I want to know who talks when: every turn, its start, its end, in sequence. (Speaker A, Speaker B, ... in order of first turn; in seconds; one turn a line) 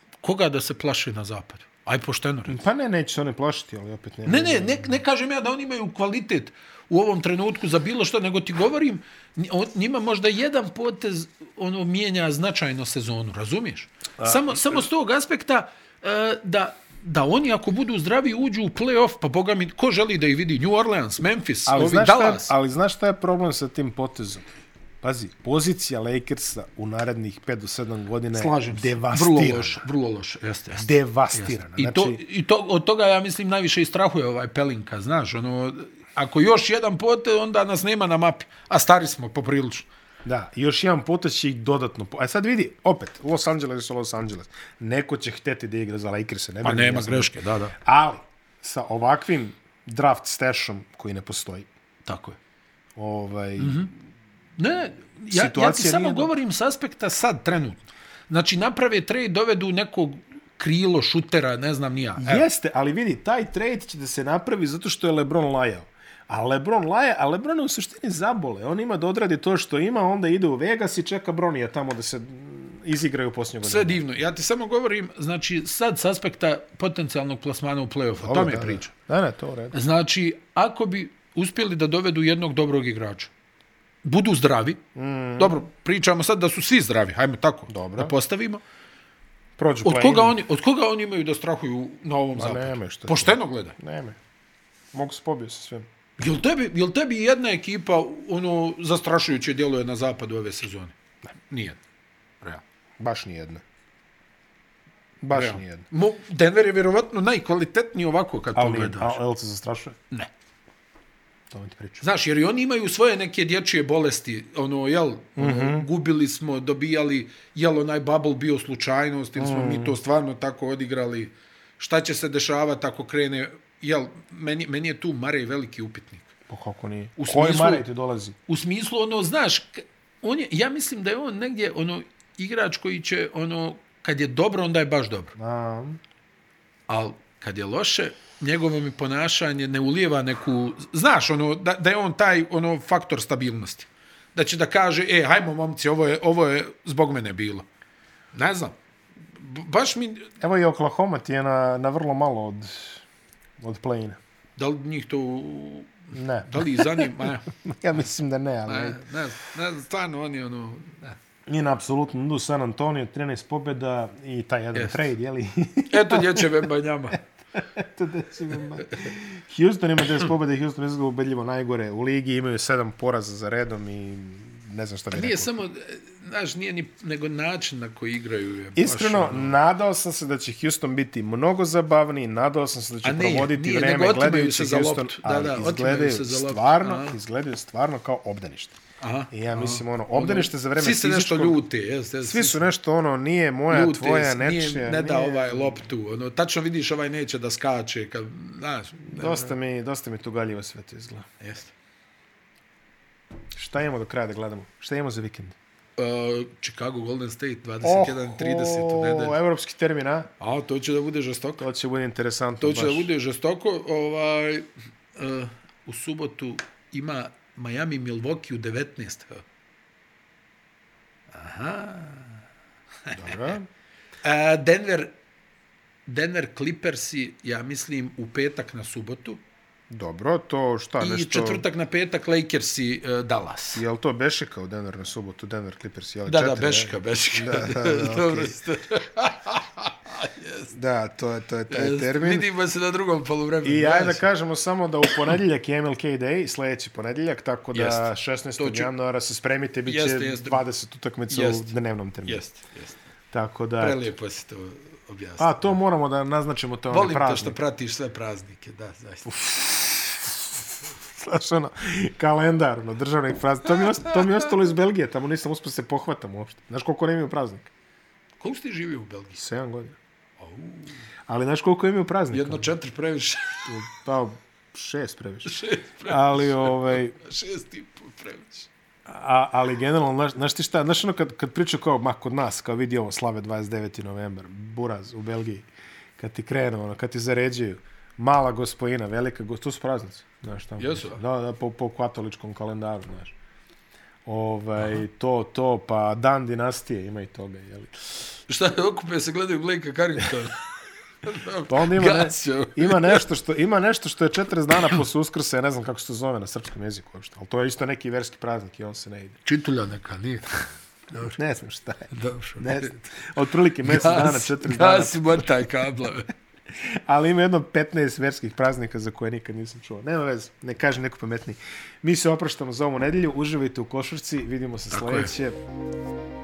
Speaker A: 0.2-2.6
Speaker B: 2.5-5.0
Speaker A: 4.2-22.5
Speaker B: 14.2-14.8
Speaker B: 21.7-24.5
Speaker B: 25.0-29.8
Speaker A: 28.3-39.9
Speaker B: 30.7-32.2
Speaker B: 40.2-51.7
Speaker A: 46.6-47.7
Speaker A: 52.0-52.4
Speaker B: 53.0-53.9
Speaker A: 53.6-53.9
Speaker A: 54.6-62.5
Speaker B: 55.3-56.3
Speaker B: 62.2-74.0
Speaker A: 73.6-78.9
Speaker B: 78.2-79.8
Speaker A: 79.7-83.3
Speaker A: 84.0-84.8
Speaker B: 84.9-85.6
Speaker A: 85.4-88.6
Speaker B: 87.7-88.1
Speaker B: 89.6-90.4
Speaker A: 89.8-93.8
Speaker B: 92.3-94.2
Speaker B: 94.9-95.9
Speaker A: 96.2-101.0
Speaker A: 101.5-101.8
Speaker B: 103.0-103.6
Speaker B: 105.2-105.8
Speaker A: 105.3-109.2
Speaker B: 108.5-110.0
Speaker B: 111.5-112.0
Speaker A: 112.0-126.3
Speaker B: 115.3-115.8
Speaker B: 119.3-120.0
Speaker B: 126.5-128.4
Speaker A: 127.2-127.8
Speaker A: 128.5-135.3
Speaker B: 135.3-136.0
Speaker A: 136.9-147.7
Speaker A: 148.3-148.8
Speaker A: 149.3-150.3
Speaker B: 150.4-153.0
Speaker B: 153.6-154.2
Speaker A: 154.6-157.5
Speaker B: 156.1-159.0
Speaker A: 158.7-161.2
Speaker B: 161.5-166.7
Speaker A: 164.7-165.1
Speaker A: 165.9-167.2
Speaker B: 167.6-175.5
Speaker A: 168.8-169.1
Speaker A: 175.1-179.6
Speaker B: 178.8-188.8
Speaker A: 183.0-187.2
Speaker A: 189.0-192.7
Speaker B: 189.3-191.6
Speaker B: 192.2-195.8
Speaker A: 193.7-199.6
Speaker B: 199.0-201.3
Speaker A: 201.4-201.7
Speaker B: 203.5-205.6
Speaker A: 206.0-209.3
Speaker B: 207.8-210.3
Speaker A: 210.4-211.7
Speaker B: 211.6-213.1
Speaker A: 212.6-219.4
Speaker A: 221.3-222.4
Speaker A: 223.0-223.4
Speaker B: 223.1-223.7
Speaker A: 224.2-225.1
Speaker A: 226.1-229.4
Speaker B: 229.9-231.6
Speaker A: 231.0-233.8
Speaker B: 233.7-238.6
Speaker A: 236.2-240.7
Speaker B: 240.7-242.5
Speaker A: 241.7-244.3
Speaker B: 243.6-252.4
Speaker A: 247.7-248.9
Speaker A: 249.8-250.6
Speaker A: 251.3-251.7
Speaker A: 252.2-253.0
Speaker B: 253.3-254.0
Speaker A: 253.8-255.8
Speaker B: 255.4-257.6
Speaker A: 256.9-259.4
Speaker B: 259.2-267.7
Speaker A: 263.8-264.4
Speaker A: 268.4-269.4
Speaker B: 269.4-270.0
Speaker A: 270.4-271.0
Speaker B: 271.3-272.7
Speaker A: 272.3-273.7
Speaker B: 273.6-277.1
Speaker A: 275.4-278.7
Speaker B: 279.1-285.6
Speaker B: 286.2-293.3
Speaker A: 290.8-291.2
Speaker B: 294.2-297.9
Speaker A: 298.5-300.6
Speaker A: 301.2-303.2
Speaker B: 301.7-309.4
Speaker A: 309.4-311.4
Speaker B: 311.2-315.5
Speaker A: 312.1-313.0
Speaker A: 313.8-316.3
Speaker B: 317.1-325.6
Speaker A: 324.9-325.3